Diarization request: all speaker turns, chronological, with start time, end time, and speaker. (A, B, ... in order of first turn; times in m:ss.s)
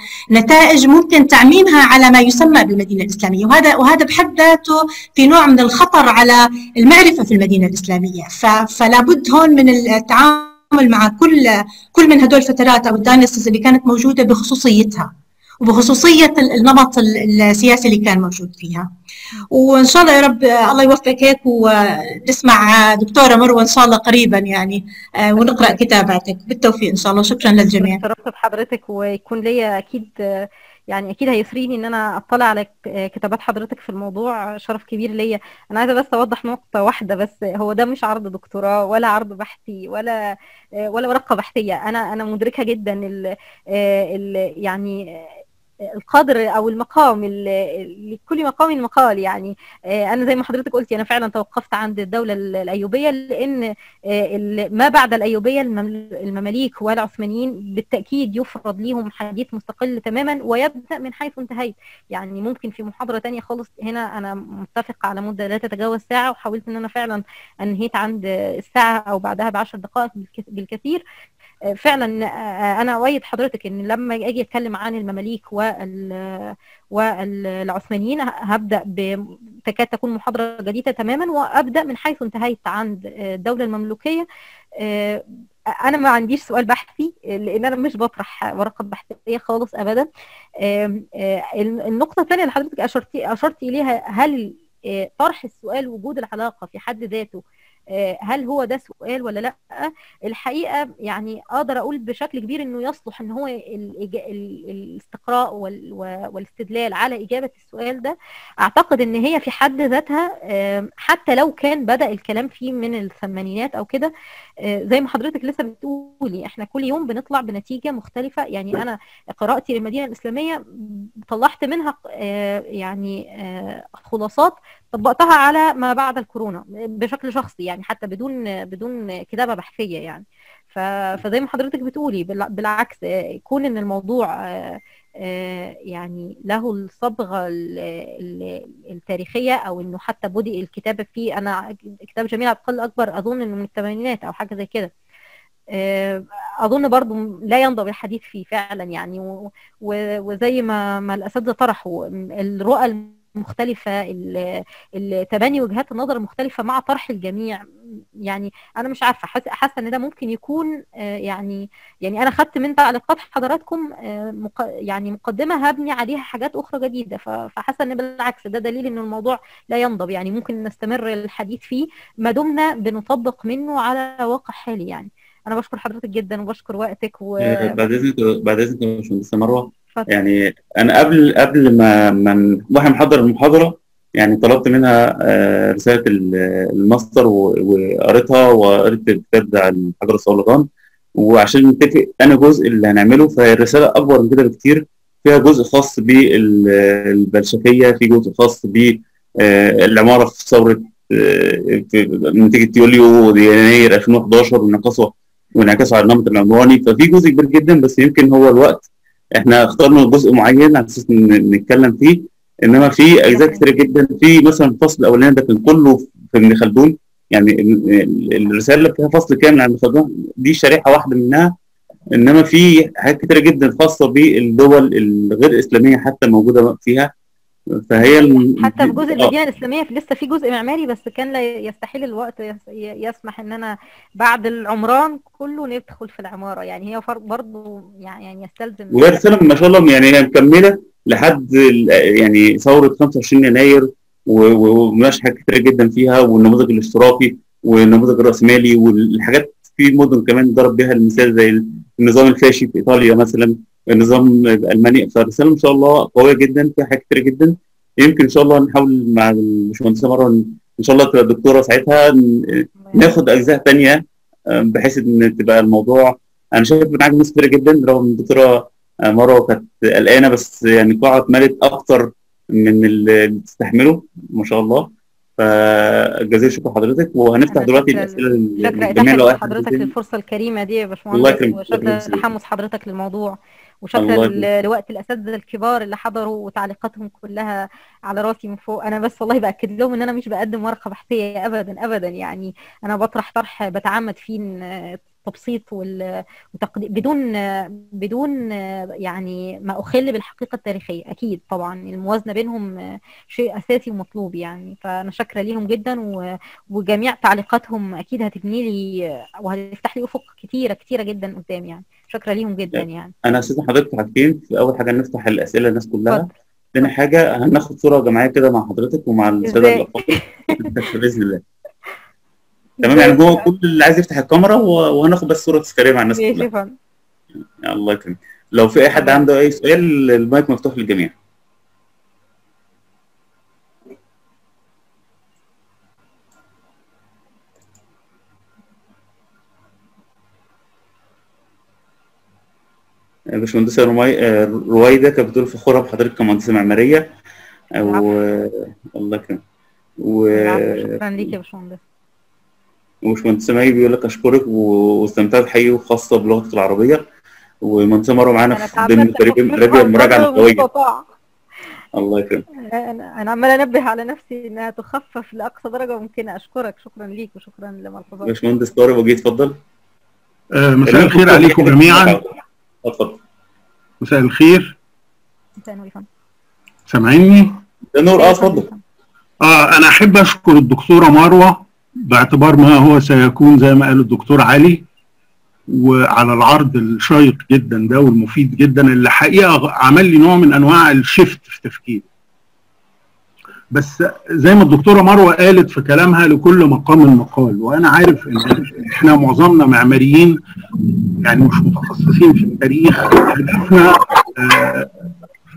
0:00.3-0:15.1 A
0:15.6-0:18.9 A
0:19.5-0:28.0 A
0:27.6-0:40.2 B
0:40.9-0:45.3 B
0:46.0-1:11.0 B
1:11.7-1:24.2 B
1:24.8-1:25.2 B
1:25.8-1:30.1 B
1:30.6-1:54.1 B
1:54.7-2:24.9 B
2:25.7-2:37.6 B
2:38.3-2:57.8 B
2:57.4-3:41.5 C
3:33.3-3:33.6 B
3:42.1-3:47.1 C
3:47.9-3:49.3 C
3:48.0-3:59.2 B
3:58.9-4:24.0 C
4:22.8-4:23.1 B
4:24.5-4:39.9 C
4:37.5-4:56.0 B
4:41.1-4:42.2 C
4:44.0-4:44.4 C
4:56.5-5:02.7 B
5:03.3-5:06.2 B
5:06.7-5:08.9 B
5:09.4-5:13.1 B
5:12.8-5:21.4 C
5:19.4-5:20.7 B
5:22.8-5:23.5 B
5:22.8-5:26.5 C
5:26.1-5:26.7 B
5:27.6-5:31.1 C
5:29.0-5:29.2 B
5:43.3-5:47.1 C
5:47.8-5:49.4 C
5:47.8-5:48.1 B
5:50.0-5:51.0 C
5:50.3-5:51.8 B
5:53.0-5:57.0 C
5:57.6-6:00.7 C
5:58.5-6:01.0 B
6:01.9-6:02.4 C
6:02.7-6:08.3 B
6:08.2-6:09.6 C
6:10.5-6:12.2 D
6:10.8-6:13.2 C
6:14.0-6:14.8 D
6:15.6-6:16.1 B
6:16.9-6:17.6 D
6:17.9-6:18.7 C
6:18.1-6:18.8 B
6:19.4-6:24.8 D
6:25.7-6:32.1 D
6:33.7-6:44.9 D